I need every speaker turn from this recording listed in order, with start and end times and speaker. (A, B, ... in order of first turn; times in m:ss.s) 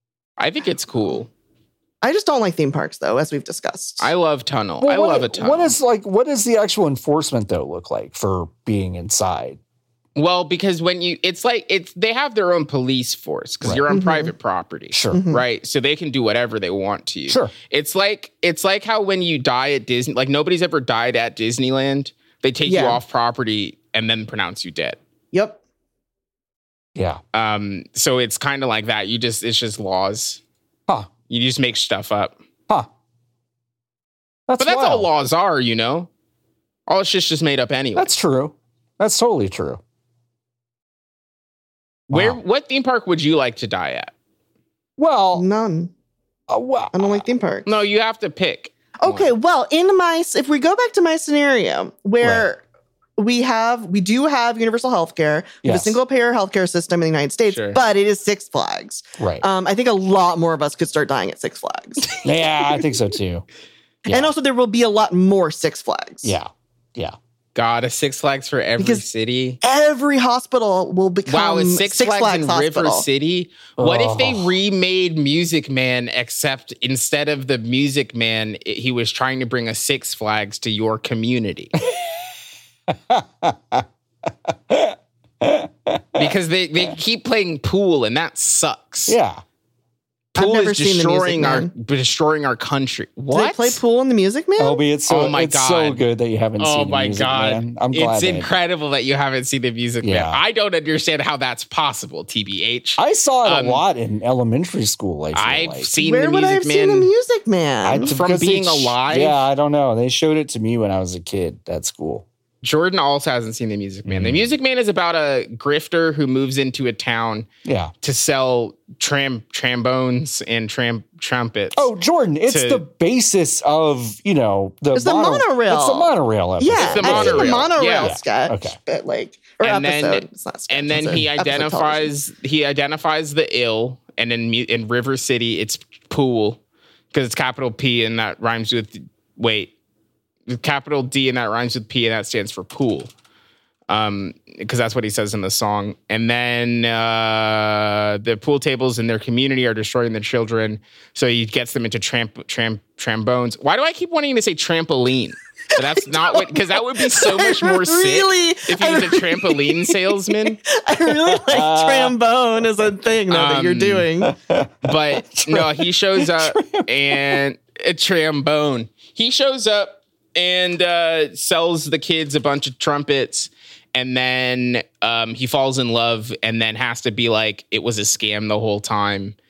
0:00.4-0:01.3 A
0:02.0-0:04.1 B
0:04.0-0:05.8 A
0:04.8-0:09.6 C
0:10.2-0:25.0 A
0:13.9-0:14.3 B
0:14.9-0:15.2 C
0:15.1-0:15.4 B
0:17.3-0:17.5 C
0:22.7-0:23.0 B
0:25.3-0:25.6 B
0:27.0-0:27.2 C
0:27.3-0:30.4 A
0:31.3-0:32.4 A
0:34.5-0:35.1 C
0:34.6-0:36.1 A
0:36.9-0:38.1 A
0:38.0-0:39.8 C
0:42.1-0:44.1 A
0:42.1-0:42.4 C
0:45.0-0:45.4 C
0:45.4-0:45.9 B
0:46.5-0:47.2 C
0:46.9-0:47.7 B
0:47.7-0:49.3 A
0:49.0-0:52.6 B
0:52.2-0:52.5 C
0:53.2-1:02.8 B
0:55.6-0:56.0 C
0:57.5-0:57.8 A
0:59.2-0:59.4 C
1:02.2-1:03.4 C
1:04.1-1:04.3 C
1:04.1-1:06.4 B
1:06.2-1:07.2 C
1:07.6-1:09.6 A
1:08.8-1:09.0 B
1:09.6-1:13.1 B
1:11.3-1:21.7 A
1:13.8-1:14.6 C
1:22.9-1:23.8 C
1:24.5-1:26.3 C
1:26.2-1:29.2 A
1:29.1-1:29.4 C
1:30.4-1:31.7 B
1:30.4-1:33.8 A
1:33.3-1:34.8 B
1:34.6-1:38.5 C
1:35.1-1:36.1 A
1:36.6-1:43.8 A
1:40.0-1:40.4 C
1:43.0-1:45.9 C
1:45.3-1:47.1 A
1:46.0-1:48.2 B
1:47.8-1:52.2 C
1:48.0-1:49.4 A
1:52.6-1:57.5 A
1:54.0-1:54.5 C
1:57.6-1:57.9 C
1:58.0-2:01.9 A
2:01.8-2:08.8 C
2:02.5-2:02.8 A
2:05.0-2:12.1 B
2:06.8-2:08.2 A
2:09.6-2:16.6 A
2:17.1-2:19.7 A
2:20.5-2:23.1 A
2:23.9-2:40.6 A
2:35.8-2:44.3 B
2:41.1-2:42.2 C
2:43.3-2:44.1 A
2:44.2-2:47.4 C
2:44.8-2:59.4 A